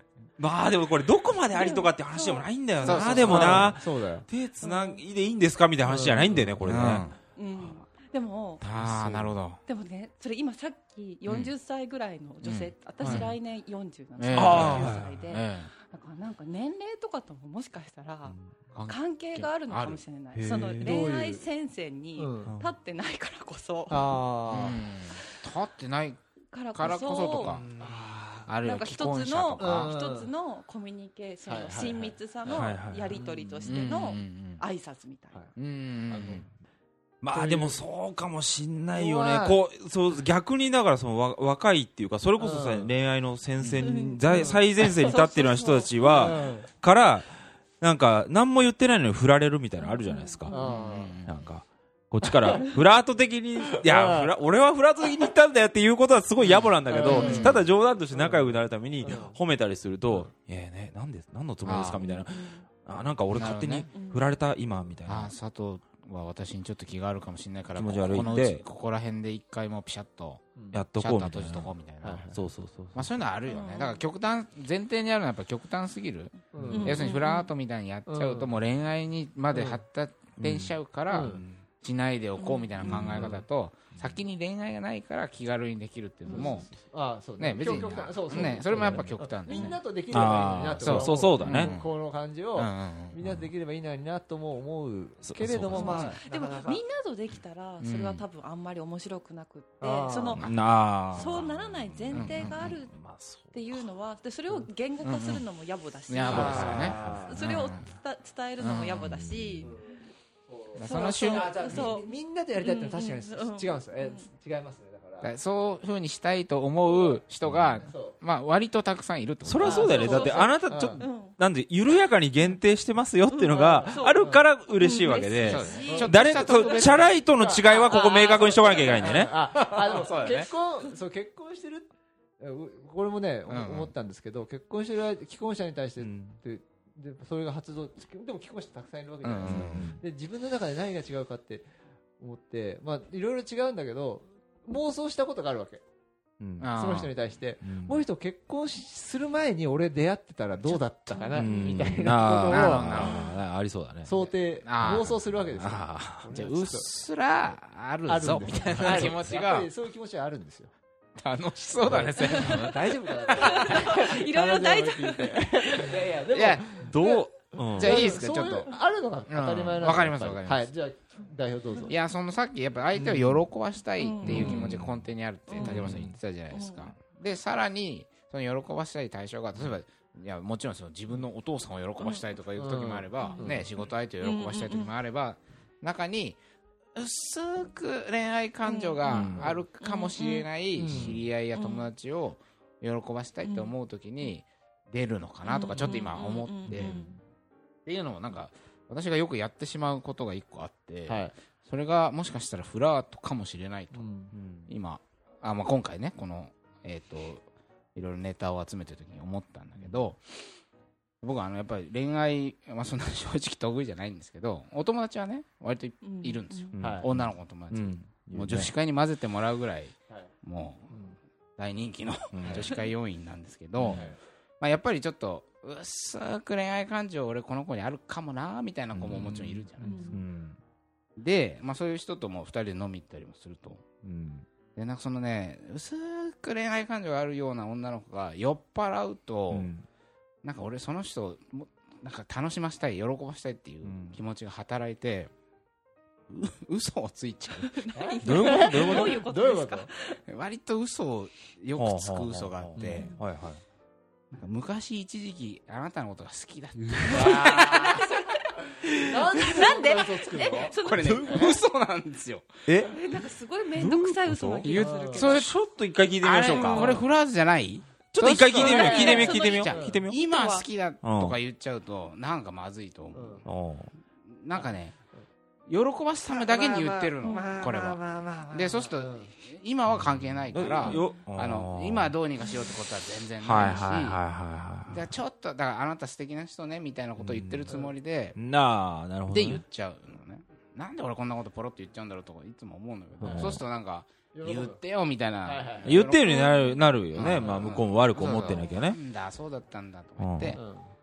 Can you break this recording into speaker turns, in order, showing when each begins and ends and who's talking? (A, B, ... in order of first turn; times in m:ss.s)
0:00.4-0:07.7 A
0:01.5-0:03.4 B
0:02.8-0:04.2 C
0:02.8-0:03.8 D
0:04.6-0:05.0 B
0:05.8-0:06.8 C
0:06.6-0:07.2 D
0:07.3-0:08.6 B
0:08.6-0:09.4 A
0:08.6-0:09.6 D
0:09.6-0:24.2 B
0:11.2-0:11.5 D
0:12.4-0:13.3 D
0:13.0-0:13.3 A
0:14.2-0:15.7 D
0:14.3-0:15.2 A
0:18.2-0:18.5 A
0:18.7-0:20.0 D
0:20.3-0:21.0 A
0:20.8-0:21.4 C
0:22.2-0:22.5 C
0:22.5-0:22.7 A
0:23.9-0:24.8 C
0:24.5-0:26.2 D
0:26.5-0:27.6 B
0:26.7-0:27.6 D
0:27.4-0:28.5 A
0:27.8-0:28.0 C
0:28.5-0:30.0 D
0:28.6-0:35.4 B
0:29.6-0:30.3 C
0:31.4-0:33.8 C
0:32.5-0:33.3 A
0:33.6-0:34.6 D
0:35.6-0:36.4 D
0:36.1-0:36.5 C
0:37.2-0:50.6 A
0:37.3-0:37.8 C
0:38.9-0:39.6 C
0:42.4-0:42.9 C
0:43.6-0:43.9 D
0:43.8-0:46.4 B
0:44.3-0:44.6 C
0:46.1-0:46.7 C
0:49.8-0:50.7 B
0:50.5-0:51.2 C
0:50.6-0:51.3 D
0:51.2-1:05.3 A
0:53.8-0:54.3 C
0:56.4-0:57.6 D
0:56.9-0:59.4 C
0:57.1-0:57.5 B
1:01.6-1:02.0 D
1:02.0-1:02.7 B
1:03.3-1:03.9 D
1:03.9-1:04.2 B
1:05.1-1:10.4 D
1:07.7-1:08.6 A
1:10.6-1:10.8 C
1:10.7-1:11.7 A
1:11.0-1:12.2 D
1:12.0-1:12.4 C
1:12.3-1:13.1 A
1:12.9-1:26.7 D
1:13.5-1:14.0 B
1:16.5-1:17.0 C
1:16.7-1:17.5 B
1:18.0-1:18.5 C
1:19.5-1:19.8 C
1:20.4-1:21.6 A
1:21.1-1:21.4 C
1:22.4-1:23.2 B
1:22.8-1:23.4 A
1:26.2-1:36.8 C
1:26.3-1:26.6 B
1:27.4-1:31.9 D
1:28.4-1:29.1 A
1:29.5-1:29.8 B
1:30.1-1:31.8 A
1:32.5-1:33.2 D
1:33.2-1:33.5 A
1:35.2-1:36.0 A
1:35.7-1:36.2 D
1:35.7-1:40.4 B
1:37.8-1:38.2 D
1:39.8-1:40.4 C
1:40.4-1:41.3 D
1:40.4-1:43.8 A
1:41.1-1:43.0 B
1:42.1-1:42.6 D
1:43.5-1:49.8 B
1:45.0-1:45.4 D
1:46.1-1:47.8 D
1:46.3-1:47.4 C
1:46.3-1:47.5 A
1:48.6-1:49.1 D
1:48.9-1:49.7 A
1:49.6-1:55.3 C
1:50.8-1:51.6 D
1:50.8-1:54.2 B
1:55.2-2:00.1 D
1:56.9-1:57.2 C
1:57.4-1:57.8 A
1:57.8-1:58.2 C
1:59.4-2:09.3 A
1:59.6-2:01.0 C
1:59.6-2:01.4 B
2:03.3-2:09.3 B
2:03.5-2:04.4 C
2:05.4-2:07.1 D
2:05.8-2:06.1 C
2:07.3-2:21.6 C
2:09.5-2:10.5 D
2:13.5-2:13.9 D
2:16.0-2:16.4 A
2:19.2-2:19.9 D
2:19.4-2:20.0 A
2:22.2-2:25.8 C
2:26.4-2:26.7 A
2:26.6-2:27.1 D
2:26.7-2:33.2 C
2:27.6-2:28.0 A
2:31.2-2:31.8 B
2:31.3-2:34.2 A
2:32.5-2:33.3 D
2:34.0-2:36.9 C
2:34.6-2:35.2 D
2:34.8-2:36.3 A
2:36.3-2:39.7 D
2:38.1-2:40.7 C
2:41.2-2:43.0 D
2:41.8-2:52.0 C
2:42.3-2:42.7 B
2:43.4-2:45.4 B
2:45.9-2:46.7 D
2:46.8-2:48.1 A
2:47.8-2:48.7 D
2:49.3-2:50.7 D
2:51.9-3:06.4 D
2:53.1-2:53.4 A
2:54.0-2:54.6 B
2:54.2-2:56.2 A
2:55.5-2:55.8 B
2:56.5-2:56.9 B
3:02.6-3:03.7 C
3:03.2-3:03.5 B
3:04.2-3:04.9 B
3:06.9-3:17.0 D
3:08.6-3:10.5 B
3:09.1-3:09.6 A
3:10.8-3:11.2 C
3:10.9-3:11.2 A
3:11.5-3:11.9 B
3:13.4-3:14.3 B
3:15.4-3:17.1 B
3:16.7-3:17.2 C
3:17.8-3:24.0 D
3:21.0-3:21.3 C
3:23.9-3:24.3 C
3:24.3-3:24.7 A
3:24.7-3:27.4 D
3:27.9-3:30.4 D
3:29.8-3:30.0 A
3:31.2-3:40.9 D
3:36.0-3:36.8 B
3:36.7-3:38.7 A
3:36.8-3:37.0 C
3:40.9-3:41.2 C
3:41.6-3:50.2 D
3:42.3-3:42.8 A
3:43.8-3:44.1 A
3:43.9-3:44.2 C
3:48.9-3:50.6 A
3:49.1-3:49.6 C
3:49.8-3:50.2 B
3:51.2-3:53.8 D
3:54.0-3:54.4 A
3:54.8-3:59.7 D
3:59.5-3:59.8 A
4:00.4-4:05.3 D
4:03.8-4:04.2 A
4:06.3-4:07.8 D
4:07.6-4:10.2 B
4:07.9-4:09.9 C
4:08.2-4:09.2 A
4:10.3-4:13.1 D
4:11.8-4:13.6 A
4:12.8-4:13.2 B
4:14.3-4:18.2 D
4:16.8-4:17.5 A
4:17.3-4:18.3 B
4:19.0-4:21.4 C
4:19.2-4:21.6 B
4:20.7-4:22.6 D
4:22.7-4:23.0 A
4:22.9-4:25.5 B
4:23.7-4:27.0 A
4:24.6-4:25.5 D
4:24.6-4:25.3 C
4:26.2-4:33.4 D
4:26.5-4:27.0 B
4:28.1-4:30.2 A
4:28.4-4:30.0 C
4:28.6-4:30.6 B
4:31.0-4:31.4 A
4:33.1-4:33.5 C
4:33.4-4:33.9 A
4:34.3-4:35.0 D
4:35.7-4:38.0 D
4:36.3-4:39.3 C
4:37.2-4:37.6 B
4:38.5-4:44.2 D
4:40.0-4:42.2 A
4:40.8-4:41.1 B
4:43.4-4:45.1 A
4:44.9-4:48.4 D
4:47.2-4:49.6 A
4:49.3-4:56.3 D
4:53.2-4:53.5 C
4:53.2-4:53.6 A
4:54.3-4:56.0 C
4:55.8-4:59.0 A
4:56.2-4:57.0 B
4:57.1-5:00.6 D
5:00.2-5:00.6 A
5:00.5-5:00.9 C